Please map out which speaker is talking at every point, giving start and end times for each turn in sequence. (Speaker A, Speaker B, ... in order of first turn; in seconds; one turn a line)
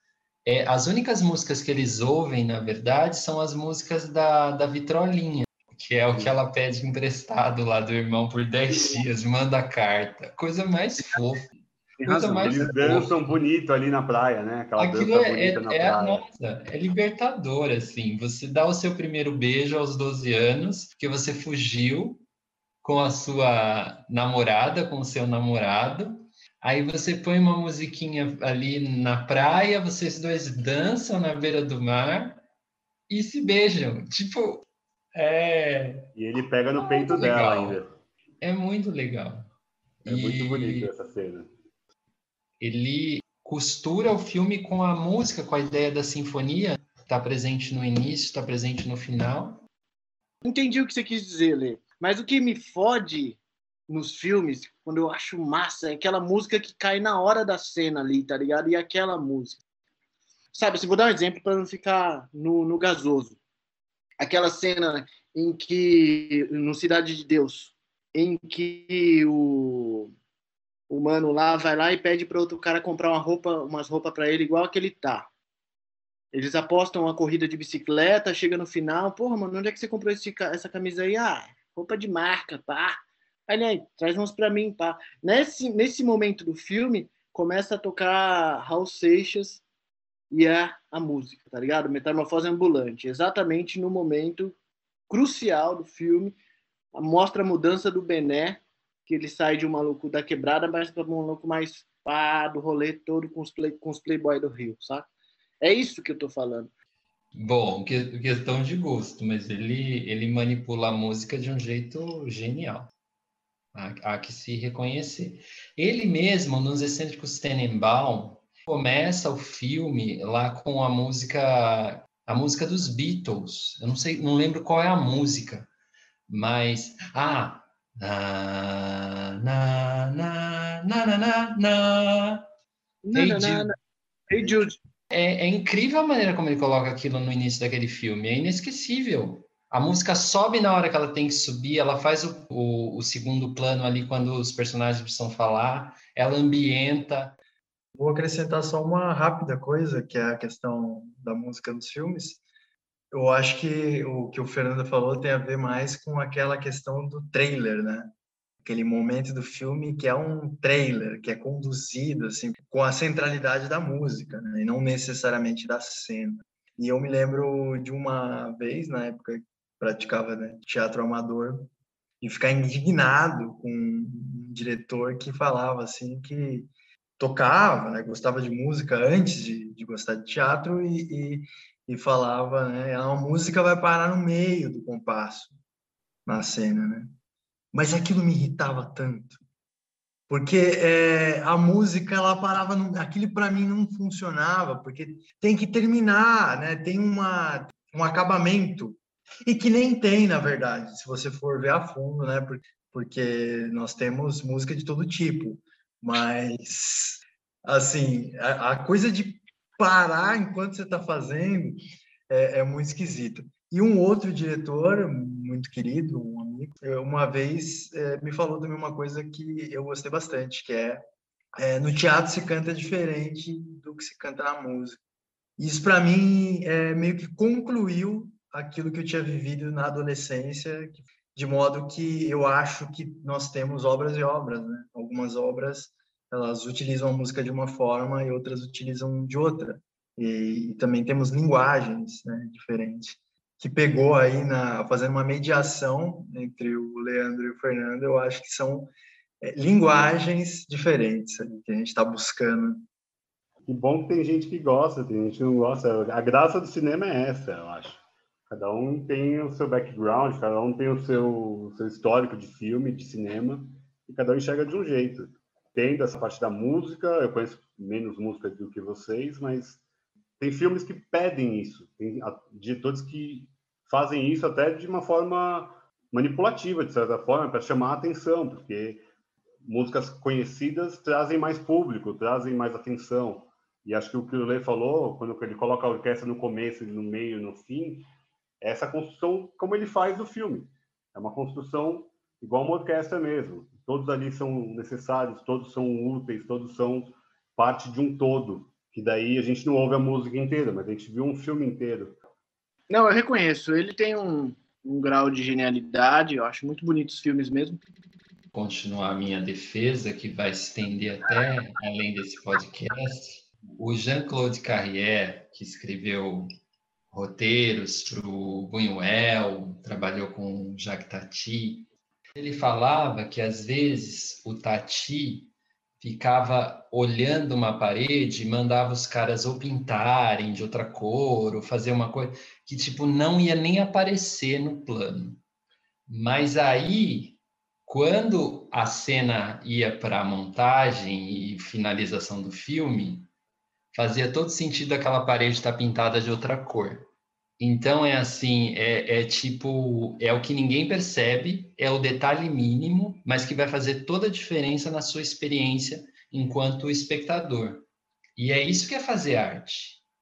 Speaker A: 0.4-11.5
Speaker B: 12.0-13.1
Speaker C: 12.0-16.2
Speaker A: 12.0-13.2
Speaker A: 14.8-22.2
Speaker A: 22.8-32.4
Speaker A: 33.1-36.1
Speaker C: 36.1-37.9
Speaker A: 36.8-37.8
Speaker A: 38.4-39.5
Speaker C: 40.0-41.5
Speaker A: 40.0-40.9
Speaker A: 42.6-49.6
Speaker B: 50.4-59.6
Speaker B: 60.5-63.4
Speaker B: 64.2-70.1
Speaker B: 70.9-75.3
Speaker B: 76.3-89.6
Speaker B: 90.3-94.5
Speaker B: 95.1-96.4
Speaker B: 96.9-106.7
Speaker A: 107.3-112.9
Speaker A: 113.7-125.7
Speaker A: 126.3-132.5
Speaker B: 133.0-133.7
Speaker A: 133.1-133.7
Speaker B: 134.3-134.8
Speaker A: 135.1-147.3
Speaker D: 147.9-152.4
Speaker D: 153.1-158.1
Speaker D: 158.6-171.7
Speaker D: 172.2-185.5
Speaker D: 186.2-187.1
Speaker D: 187.7-189.4
Speaker D: 190.3-221.0
Speaker D: 221.6-225.0
Speaker D: 225.6-248.9
Speaker D: 249.4-252.8
Speaker C: 253.7-269.8
Speaker C: 270.4-279.0
Speaker C: 279.6-288.1
Speaker C: 288.6-302.2
Speaker B: 302.9-307.8
Speaker A: 308.5-316.5
Speaker A: 317.1-335.4
Speaker A: 336.1-343.3
Speaker A: 343.9-360.0